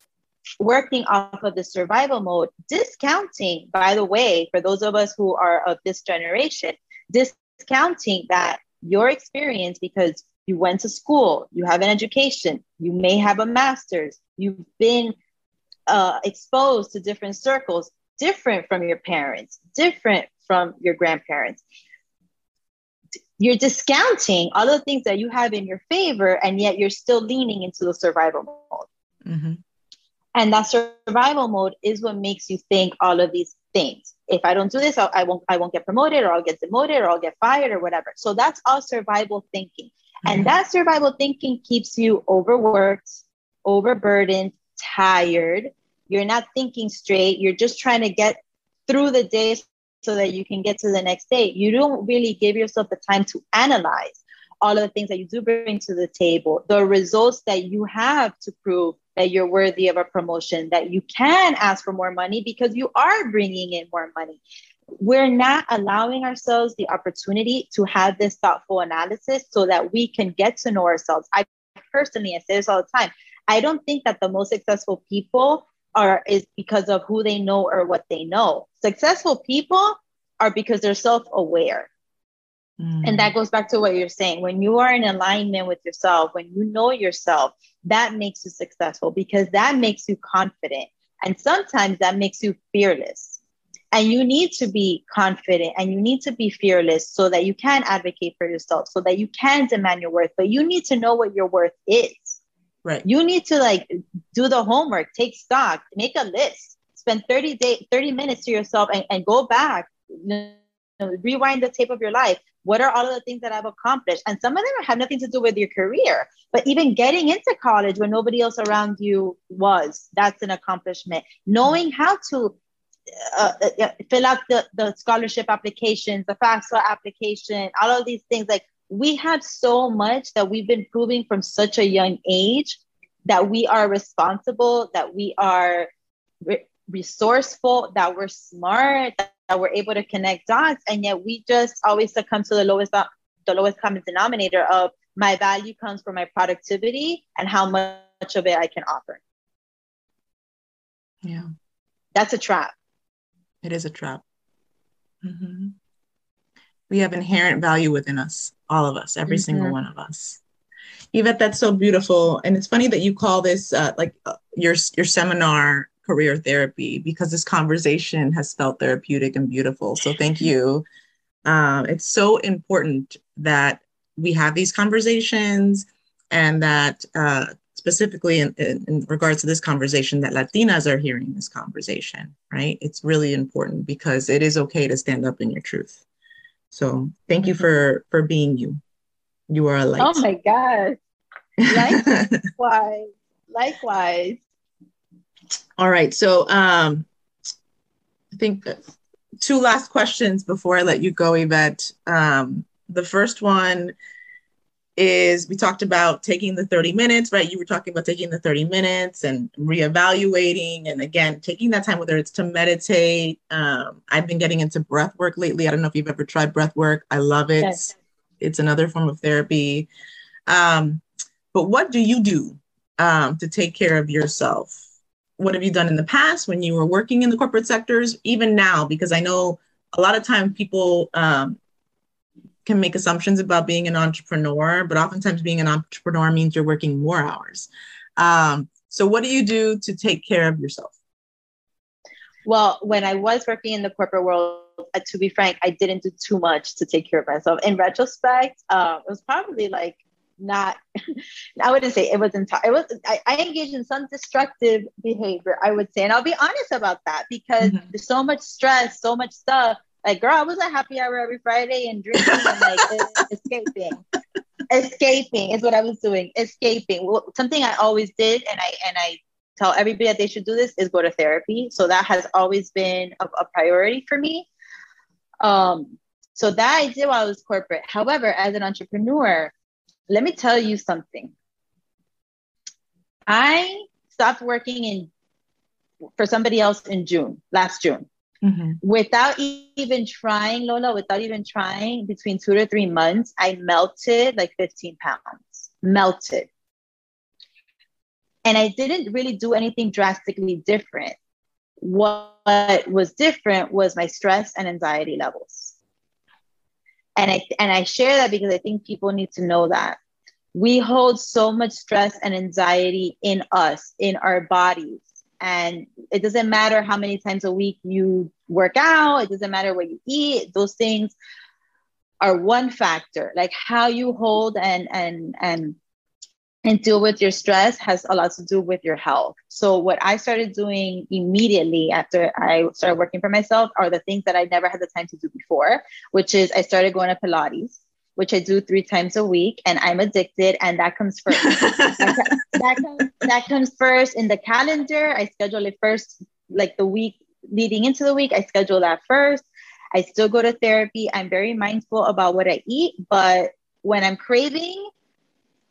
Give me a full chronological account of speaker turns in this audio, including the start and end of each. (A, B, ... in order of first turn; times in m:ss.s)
0:00.6-0:15.1 A
0:15.9-0:21.6 A
0:23.4-0:28.9 A
0:29.2-0:29.6 B
0:30.4-1:04.4 A
0:40.2-0:40.5 B
1:05.0-1:21.9 A
1:22.8-1:23.3 B
1:23.0-1:33.4 A
1:33.9-1:42.4 A
1:43.0-2:02.6 A
2:03.2-2:15.9 A
2:16.4-2:29.2 A
2:31.2-2:31.5 B
2:32.1-2:32.7 A
2:33.6-2:34.2 B
2:35.2-2:35.8 B
2:36.9-2:40.4 B
2:39.3-2:39.8 A
2:41.1-2:50.8 B
2:51.4-3:06.0 B
3:06.7-3:08.8 B
3:07.4-3:07.7 A
3:09.5-3:10.2 B
3:10.0-3:11.0 A
3:11.6-3:12.4 B
3:11.6-3:14.4 A
3:15.8-3:17.1 B
3:18.3-3:18.8 B
3:19.4-3:23.9 B
3:25.0-3:39.9 B
3:40.5-3:44.8 B
3:45.4-3:51.6 B
3:52.6-4:00.9 B
4:02.4-4:10.8 A
4:11.6-4:24.0 A
4:17.6-4:17.8 B
4:22.2-4:22.9 B
4:24.7-4:34.5 A
4:35.4-4:39.5 A
4:40.1-4:41.3 A
4:43.3-4:45.1 A
4:46.2-4:48.0 A
4:48.4-4:48.8 B
4:48.8-4:56.5 A
4:58.4-5:01.2 A
5:01.8-5:05.7 A
5:07.2-5:10.0 A
5:10.5-5:21.1 A
5:22.2-5:25.8 A
5:26.6-5:54.9 A
5:41.3-5:42.5 B